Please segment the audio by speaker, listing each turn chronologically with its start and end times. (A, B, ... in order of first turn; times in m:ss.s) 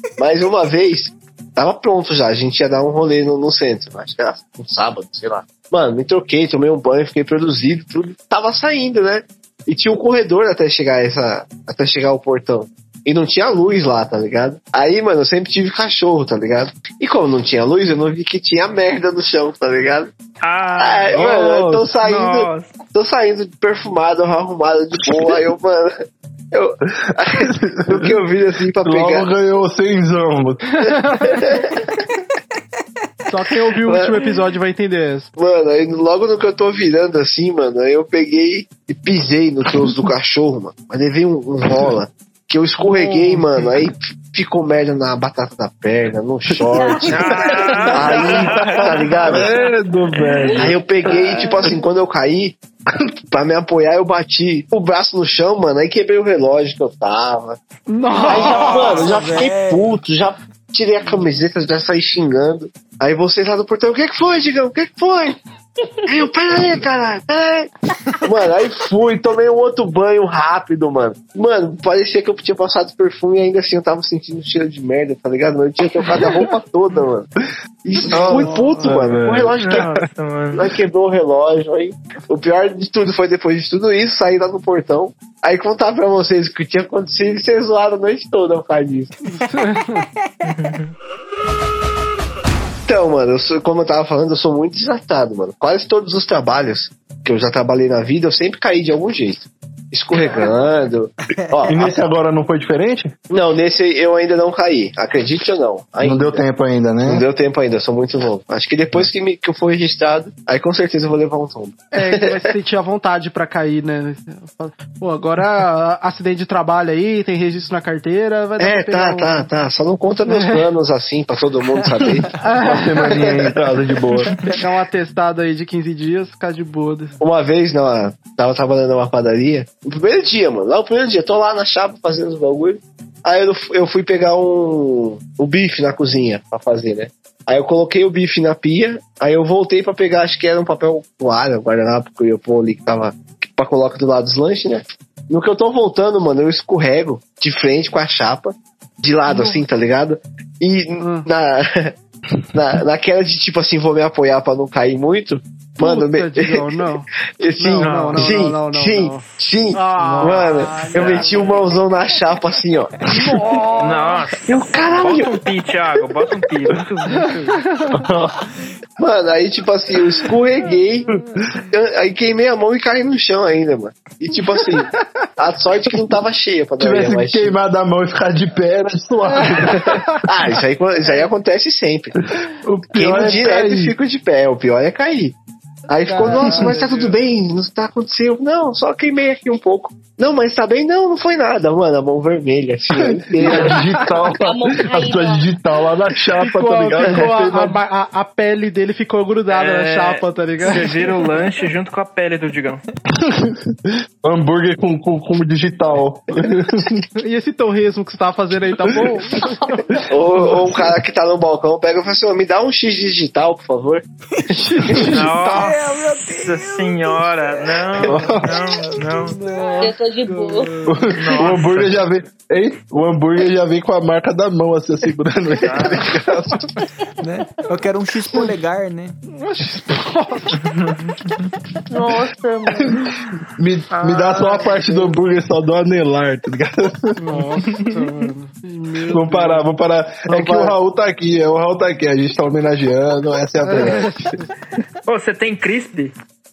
0:00.2-0:20.1 A
0:20.4-0:22.7 B
0:20.8-0:25.9 A
0:21.1-0:21.8 C
0:25.1-0:25.4 C
0:26.5-0:29.3 A
0:27.3-0:28.2 C
0:28.8-0:30.9 C
0:30.8-0:31.2 D
0:31.2-0:32.0 A
0:33.3-0:35.3 D
0:33.9-0:34.2 A
0:35.4-0:49.5 A
0:42.8-0:43.4 D
0:46.7-0:47.6 E
0:46.9-0:47.2 C
0:47.1-0:49.4 B
0:49.2-0:51.2 C
0:50.2-0:50.5 B
0:50.5-0:52.6 A
0:53.3-0:57.6 A
0:57.9-0:59.0 D
0:58.2-1:05.4 A
0:58.4-0:59.2 B
0:58.4-1:00.0 F
1:05.9-1:06.2 E
1:06.1-1:07.7 A
1:08.2-1:17.3 A
1:17.8-1:19.9 A
1:18.0-1:20.0 C
1:18.1-1:20.7 B
1:18.1-1:18.7 D
1:20.5-1:29.1 A
1:29.2-1:30.1 D
1:29.5-1:30.5 F
1:30.4-1:30.9 B
1:32.9-1:42.0 A
1:41.3-1:42.0 F
1:41.7-1:43.1 C
1:43.3-1:46.4 A
1:46.0-1:47.2 C
1:47.1-1:52.4 A
1:51.9-1:59.5 D
1:58.6-2:02.3 A
2:00.3-2:00.6 D
2:01.8-2:02.4 F
2:02.4-2:03.3 D
2:02.6-2:04.4 C
2:03.0-2:03.5 A
2:04.4-2:07.1 D
2:07.2-2:31.9 A
2:29.2-2:29.6 D
2:31.0-2:31.3 D
2:32.5-2:36.7 A
2:35.8-2:37.1 D
2:37.4-2:42.9 A
2:37.6-2:39.2 D
2:37.8-2:38.5 B
2:39.7-2:41.3 D
2:40.0-2:41.6 B
2:40.7-2:41.5 F
2:43.1-2:44.2 D
2:43.8-2:47.6 B
2:44.5-2:45.4 A
2:47.1-2:48.0 D
2:47.9-2:48.4 C
2:49.0-2:57.5 A
2:56.8-3:00.0 C
2:59.3-3:00.2 D
2:59.7-3:02.1 A
3:02.4-3:03.9 C
3:02.9-3:05.3 A
3:05.9-3:13.8 A
3:06.1-3:07.1 D
3:12.9-3:17.8 C
3:14.3-3:15.4 E
3:16.4-3:21.1 D
3:19.5-3:22.8 B
3:23.2-3:26.9 C
3:27.1-3:29.6 D
3:28.8-3:29.2 C
3:30.0-3:31.0 C
3:30.0-3:34.0 A
3:34.5-3:35.7 D
3:35.1-3:39.4 B
3:35.5-3:39.7 F
3:38.0-3:38.6 C
3:39.0-3:41.2 D
3:39.8-3:40.7 E
3:40.9-3:46.7 C
3:41.1-3:41.9 B
3:45.5-3:46.1 B
3:47.2-3:47.6 E
3:47.2-3:49.2 F
3:49.3-3:50.7 D
3:51.9-3:53.2 E
3:52.8-3:57.4 C
3:54.1-3:54.8 E
3:57.2-3:59.6 D
3:59.1-4:04.4 C
4:00.3-4:00.7 D
4:03.6-4:04.4 D
4:05.1-4:06.1 B